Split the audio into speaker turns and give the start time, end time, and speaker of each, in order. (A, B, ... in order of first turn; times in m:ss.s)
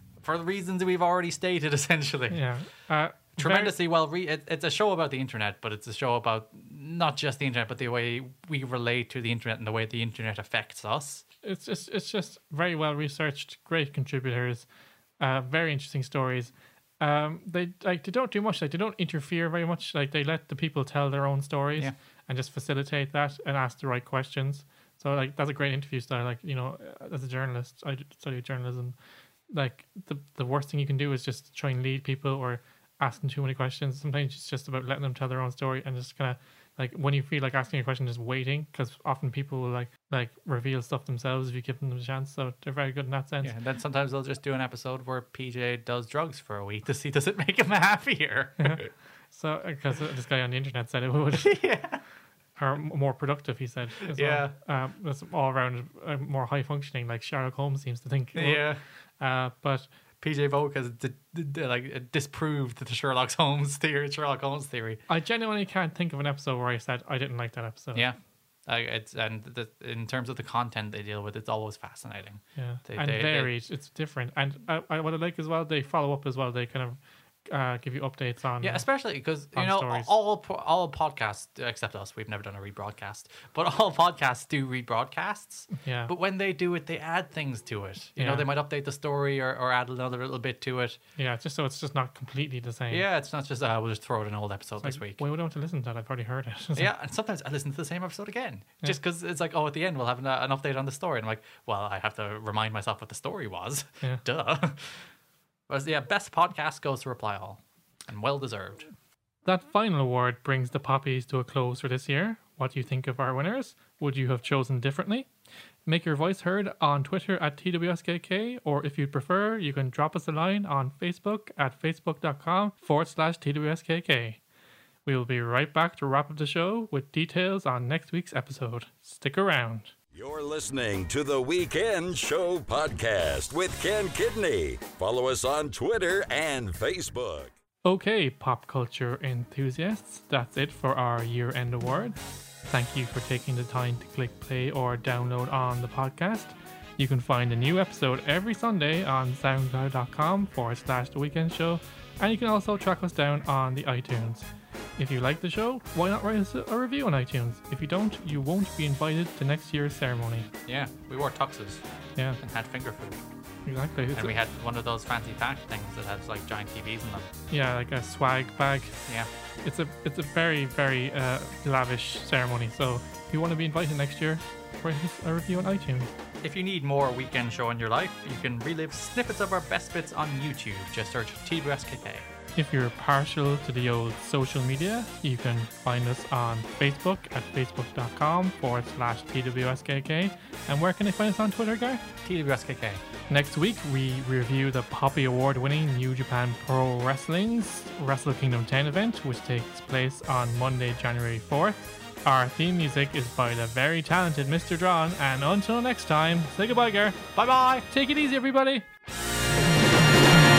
0:00.2-0:02.4 A
0:02.3-0:03.8 B
0:03.4-0:11.2 A
0:11.4-0:14.6 B
0:15.2-0:29.0 B
0:29.5-0:43.5 B
0:43.4-0:48.9 A
0:48.6-0:51.6 B
0:51.4-0:52.0 A
0:52.6-0:59.9 B
0:54.0-0:54.5 A
0:58.3-0:58.8 A
1:00.2-1:05.0 A
1:05.1-1:08.0 B
1:07.9-1:13.5 A
1:12.6-1:18.8 B
1:18.6-1:31.0 A
1:19.5-1:20.1 B
1:25.7-1:26.1 B
1:28.2-1:28.5 B
1:31.2-1:33.0 B
1:32.9-1:35.2 A
1:34.8-1:36.9 B
1:36.7-1:45.0 A
1:45.7-1:48.9 A
1:49.4-1:55.3 B
1:55.8-2:04.4 B
2:05.0-2:09.9 B
2:10.1-2:17.5 C
2:17.8-2:22.2 B
2:22.7-2:40.5 B
2:40.7-2:41.8 A
2:42.4-2:43.2 A
2:43.6-2:44.3 B
2:44.1-2:47.3 A
2:47.5-2:49.0 B
2:49.6-2:56.1 B
2:56.4-3:02.3 A
3:02.6-3:12.0 B
3:12.2-3:13.0 A
3:13.3-3:27.2 B
3:27.3-3:27.9 A
3:27.9-3:28.8 B